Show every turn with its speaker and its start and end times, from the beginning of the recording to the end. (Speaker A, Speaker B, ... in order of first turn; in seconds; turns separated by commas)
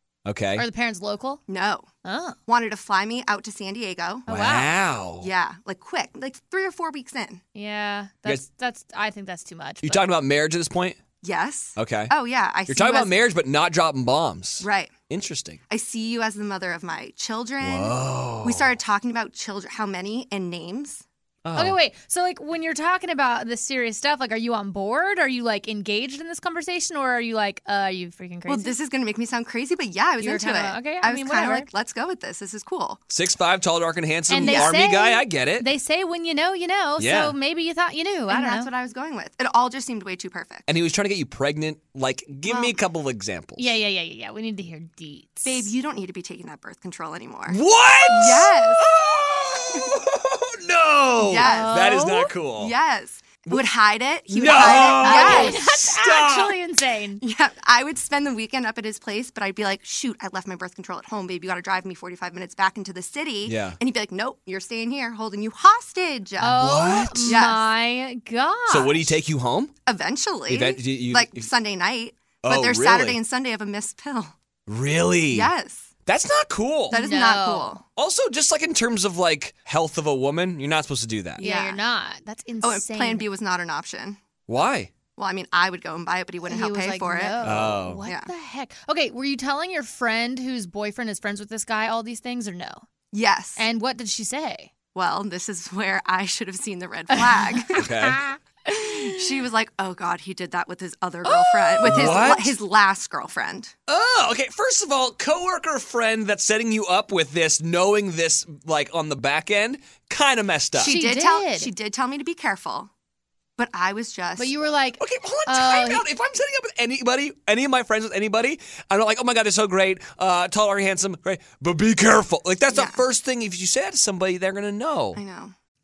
Speaker A: 0.2-0.7, Speaker B: 0.6-1.4, Speaker C: 1.5-1.9, Speaker B: 2.0-2.4, Speaker C: 2.5-4.2, Speaker A: 4.3-5.3, Speaker B: 4.3-4.7, Speaker C: 5.2-7.4, Speaker B: 7.5-10.0, Speaker A: 9.8-11.0, Speaker C: 11.2-13.1, Speaker A: 11.8-12.1, Speaker A: 12.7-15.6, Speaker C: 14.6-14.9, Speaker C: 15.7-21.0, Speaker A: 17.6-18.7, Speaker A: 21.4-21.8, Speaker B: 21.5-28.7, Speaker C: 28.5-33.0, Speaker B: 30.2-31.7, Speaker A: 33.1-35.7, Speaker B: 34.3-38.7, Speaker C: 34.3-34.7, Speaker A: 37.0-37.3, Speaker C: 38.3-40.7, Speaker A: 40.7-43.7, Speaker C: 42.5-42.8, Speaker B: 43.6-45.7, Speaker C: 45.4-49.0, Speaker A: 47.5-52.7, Speaker C: 51.2-51.8, Speaker B: 51.3-52.3, Speaker C: 52.6-55.6, Speaker A: 54.3-56.6, Speaker B: 54.4-57.2, Speaker C: 57.2-66.6, Speaker A: 63.4-63.8, Speaker B: 66.4-69.2, Speaker A: 66.4-67.4, Speaker C: 67.2-67.7, Speaker A: 68.7-69.7, Speaker C: 69.8-74.3, Speaker A: 70.5-71.5, Speaker A: 72.4-73.2, Speaker A: 74.7-75.5, Speaker C: 75.3-75.9, Speaker A: 76.0-77.0, Speaker B: 76.9-77.8, Speaker C: 76.9-77.8, Speaker A: 78.0-81.4, Speaker C: 81.4-81.8, Speaker B: 81.4-83.2, Speaker C: 82.6-84.2, Speaker A: 84.5-84.9, Speaker C: 85.2-88.3, Speaker B: 86.5-92.8, Speaker A: 87.4-88.0, Speaker C: 93.1-93.7, Speaker B: 93.5-94.7, Speaker C: 94.9-97.9, Speaker B: 97.1-99.4, Speaker A: 97.7-98.2, Speaker C: 98.7-103.7, Speaker A: 101.3-102.5, Speaker B: 101.7-102.4, Speaker A: 103.9-110.9, Speaker C: 110.7-112.9, Speaker B: 110.8-111.7, Speaker C: 113.6-114.5, Speaker B: 114.4-116.0, Speaker A: 115.0-125.2, Speaker C: 122.7-123.0, Speaker C: 125.1-125.5